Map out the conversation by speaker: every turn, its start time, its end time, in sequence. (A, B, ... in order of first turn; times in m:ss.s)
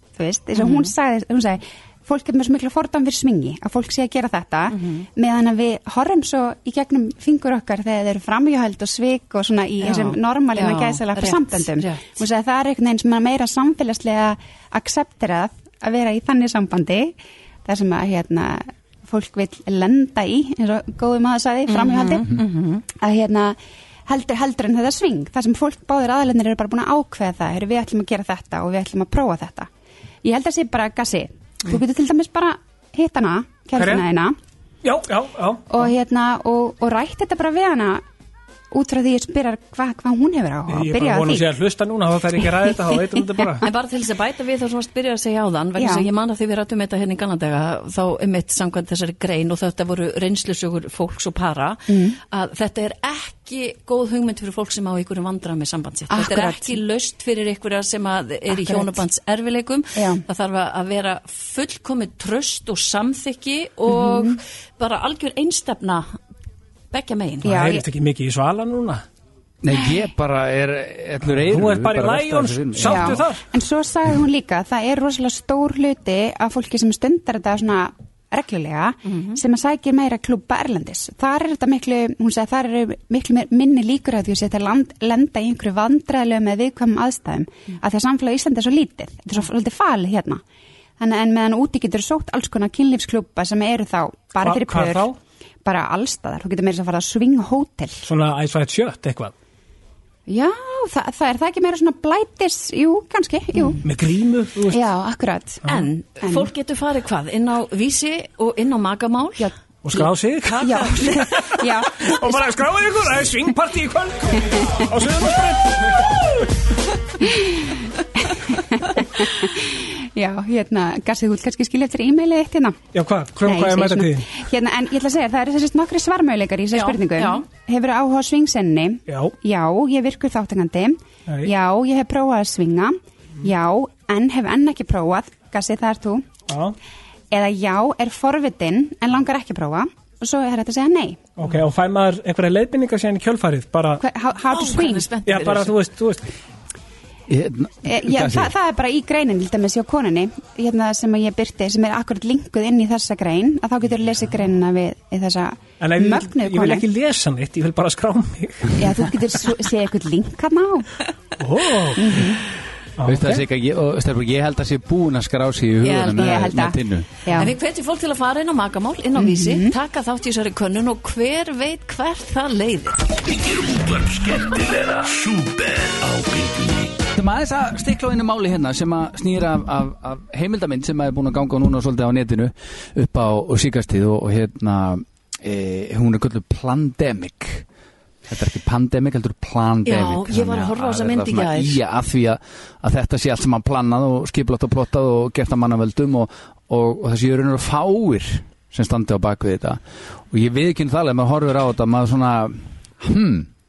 0:00.2-0:22.3 A
0:00.6-0:00.9 B
0:04.7-0:05.1 B
0:09.8-0:12.2 B
0:21.7-0:22.8 B
0:22.9-0:29.7 A
0:30.2-0:34.4 A
0:33.8-0:34.0 C
0:34.8-0:35.8 C
0:35.7-0:38.0 A
0:38.7-0:41.5 A
0:40.7-0:43.6 C
0:43.6-1:06.1 B
0:45.8-0:46.1 A
0:51.9-0:52.2 A
0:56.1-0:56.8 A
0:58.5-0:59.0 A
1:00.0-1:00.2 A
1:03.9-1:04.4 A
1:06.9-1:07.6 B
1:07.4-1:07.8 A
1:07.4-1:09.0 C
1:09.6-1:13.2 D
1:11.3-1:13.4 C
1:12.8-1:30.4 A
1:19.0-1:19.4 B
1:31.0-1:35.1 A
1:34.4-1:35.2 C
1:35.6-1:38.0 A
1:38.0-1:39.3 C
1:40.3-1:43.8 A
1:43.8-1:44.8 C
1:44.7-1:46.5 A
1:45.7-1:51.3 B
1:49.8-1:50.7 C
1:50.6-1:52.6 A
1:52.0-1:56.3 C
1:54.6-1:54.9 A
1:57.2-2:02.8 A
2:02.9-2:04.2 C
2:03.4-2:16.4 A
2:06.7-2:07.4 B
2:09.1-2:09.3 C
2:16.5-2:16.7 C
2:17.3-2:21.2 A
2:21.4-2:24.0 C
2:24.0-2:25.1 A
2:24.5-2:25.8 B
2:25.2-2:26.2 C
2:27.3-2:28.5 D
2:27.8-2:36.8 A
2:35.8-2:38.8 C
2:38.8-2:40.9 A
2:41.4-2:42.4 C
2:41.9-2:42.4 A
2:43.0-2:43.4 C
2:43.1-2:47.1 D
2:45.8-2:46.5 B
2:46.1-2:47.5 A
2:47.3-2:53.1 B
2:49.2-2:49.7 A
2:53.2-2:57.0 E
2:57.1-3:07.6 D
3:08.3-3:19.8 D
3:09.8-3:11.8 B
3:20.3-3:23.5 D